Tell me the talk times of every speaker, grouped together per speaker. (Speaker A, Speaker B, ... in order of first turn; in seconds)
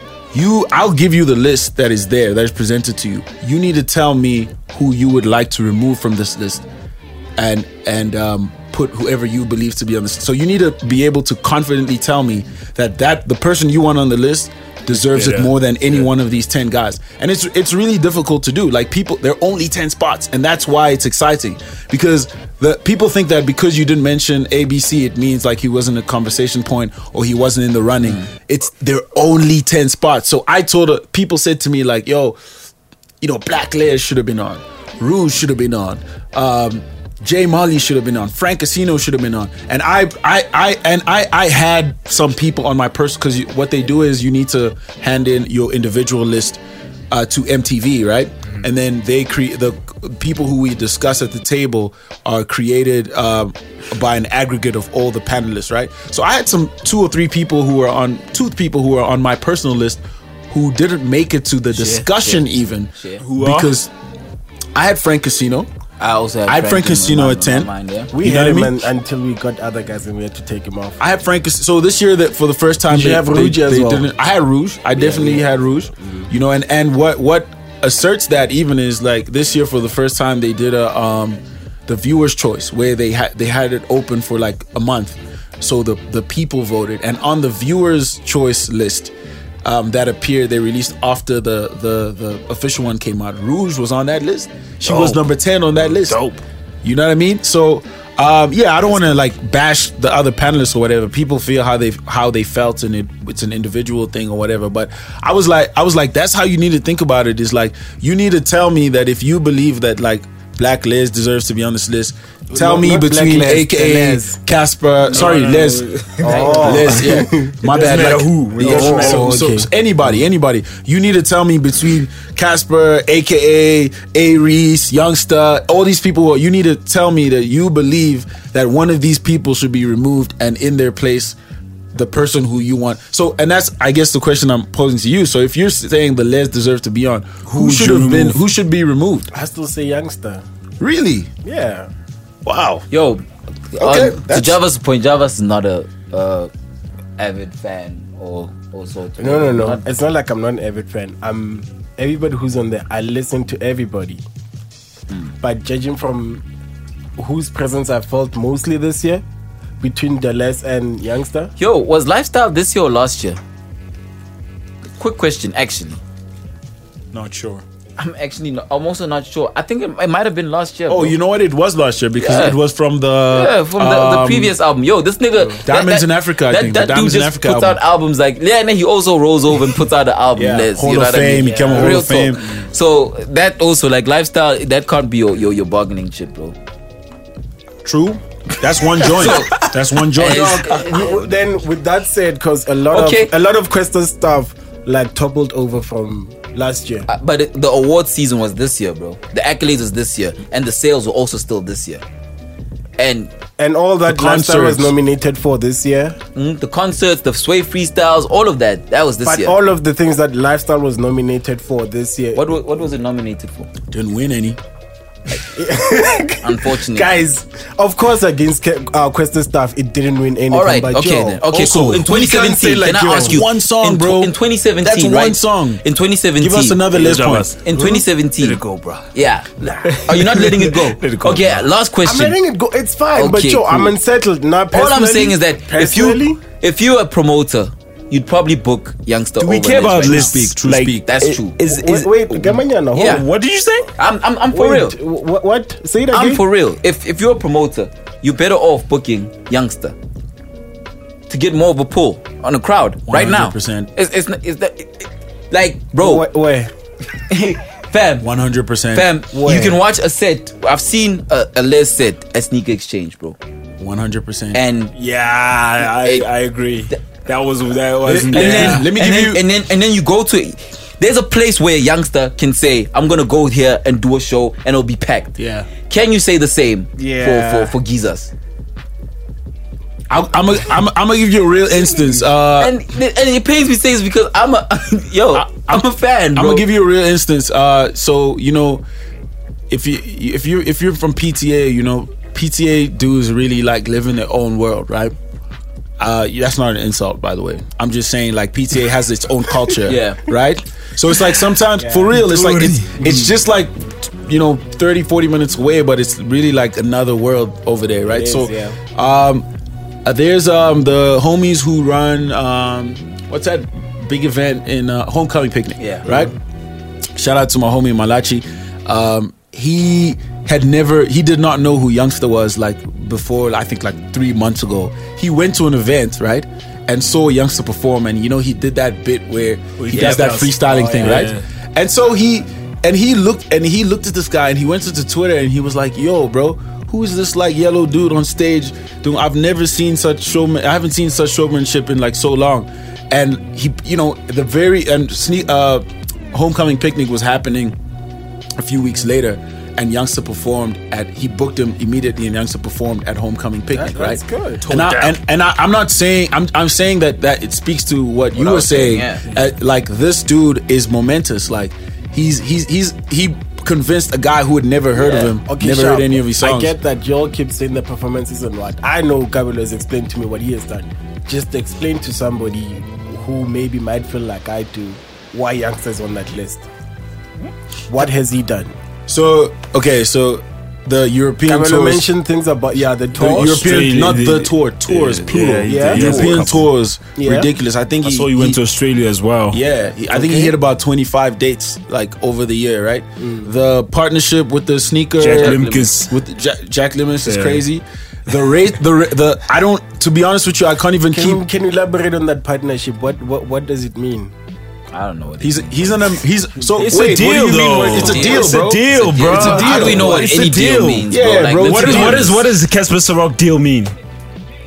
Speaker A: 0.3-6.6, 7.4-32.4, 33.2-46.6, 47.1-63.9, 64.7-65.7, 66.5-68.8, 71.0-89.1, 89.6-96.2, 96.8-131.3, 131.9-139.3, 140.8-141.3, 142.4-142.8, 143.8-144.6, 167.1-167.6, 170.9-174.5, 175.6-177.8, 180.3-182.5, 187.8-190.7, 204.1-204.9, 213.9-214.6, 221.5-225.8, 226.4-227.5, 239.6-241.1, 253.1-253.9, 258.2-259.1, 263.8-264.6, 268.0-269.4, 275.4-275.7, 280.1-282.7, 285.3-288.8, 289.7-295.1, 296.0-309.4, 310.0-316.3, 317.1-347.8, 348.6-366.7, 379.1-382.1, 383.2-388.6, 389.5-401.4, 405.4-410.3, 411.1-412.4
Speaker B: 15.1-16.1, 61.8-62.1, 63.2-63.7, 94.8-95.2, 95.8-96.4, 115.0-117.1, 117.6-119.4, 137.4-138.4, 226.9-229.1, 229.7-231.7, 239.4-243.9, 264.9-268.8, 277.0-277.6, 302.1-302.9, 329.8-331.4, 354.7-355.1, 383.2-386.7, 388.0-389.6, 395.2-396.1, 397.2-397.6, 406.8-413.9
Speaker C: 63.0-63.2, 66.0-68.1, 75.0-75.4, 142.9-143.2, 143.7-146.5, 147.2-149.8, 161.6-163.4, 165.0-166.0, 168.0-171.1, 172.2-172.6, 173.3-186.6, 189.0-189.7, 190.2-191.4, 192.9-193.3, 197.1-202.0, 203.0-203.3, 206.3-209.5, 212.3-213.7, 216.4-217.1, 220.5-226.8, 227.6-228.6, 229.1-232.3, 233.1-233.9, 234.7-240.4, 241.0-241.6, 242.9-243.2, 244.0-245.0, 246.1-249.9, 251.3-256.2, 257.2-258.3, 258.9-263.4, 264.5-264.9, 266.0-266.3, 268.3-275.4, 275.9-278.3, 282.6-286.6, 299.9-300.2, 315.8-316.1, 330.0-330.2, 331.0-331.3, 358.3-359.2, 364.9-365.3, 395.2-395.9, 404.9-406.0, 407.9-412.4
Speaker D: 68.1-71.0, 72.9-74.1, 112.5-114.4, 116.2-118.0, 118.6-119.7, 139.3-140.4, 141.4-141.9, 149.2-154.2, 155.4-156.4, 157.2-159.2, 159.8-161.5, 181.4-182.0, 190.2-197.1, 203.6-206.2, 209.2-212.4, 215.5-221.4, 223.0-223.4, 232.0-236.4, 241.6-243.2, 244.5-246.4, 256.0-256.7, 259.3-259.8, 301.8-302.2, 302.9-303.3, 308.1-308.8, 353.7-354.7, 365.4-376.6, 377.9-378.7, 381.5-383.8, 385.7-386.5, 387.1-387.5, 390.1-390.5, 393.2-393.5, 401.1-404.3